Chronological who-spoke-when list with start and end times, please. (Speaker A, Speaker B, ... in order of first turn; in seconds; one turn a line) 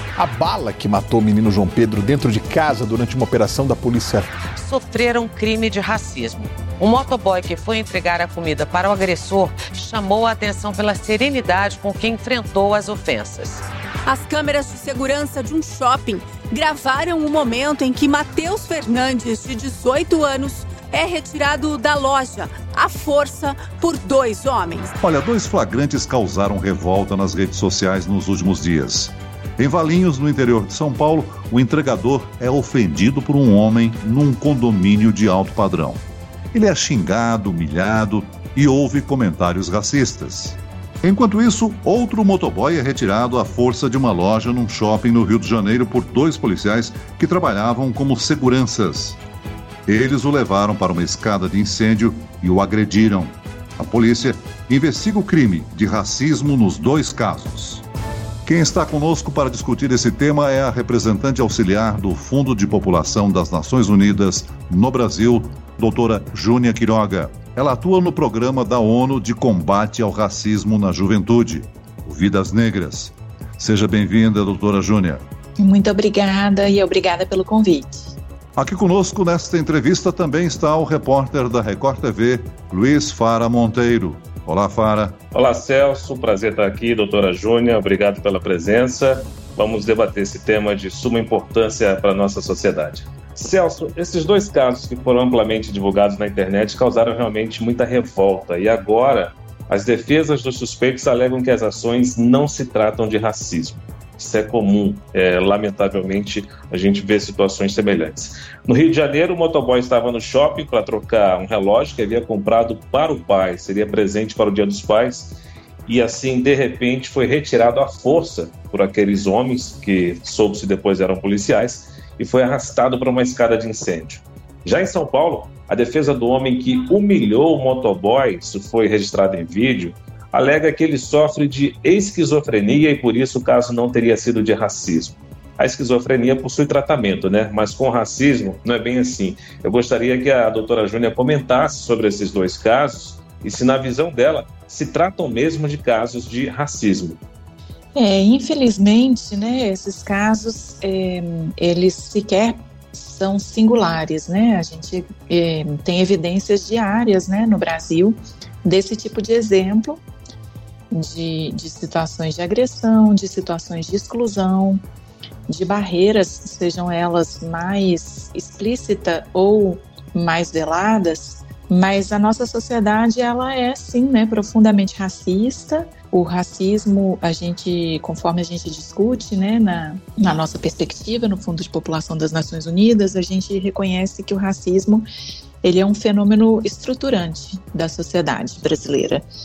Speaker A: 0.2-4.3
Speaker B: 4.5-13.6
Speaker C: 14.1-24.9
Speaker D: 25.0-36.0
Speaker D: 36.5-49.2
Speaker D: 49.9-57.8
Speaker D: 58.4-75.2
Speaker E: 75.6-78.1
Speaker D: 78.5-85.2
Speaker F: 85.3-147.2
Speaker E: 147.9-160.0
Speaker E: 160.9-164.8
Speaker E: 165.5-185.1
Speaker E: 185.6-189.2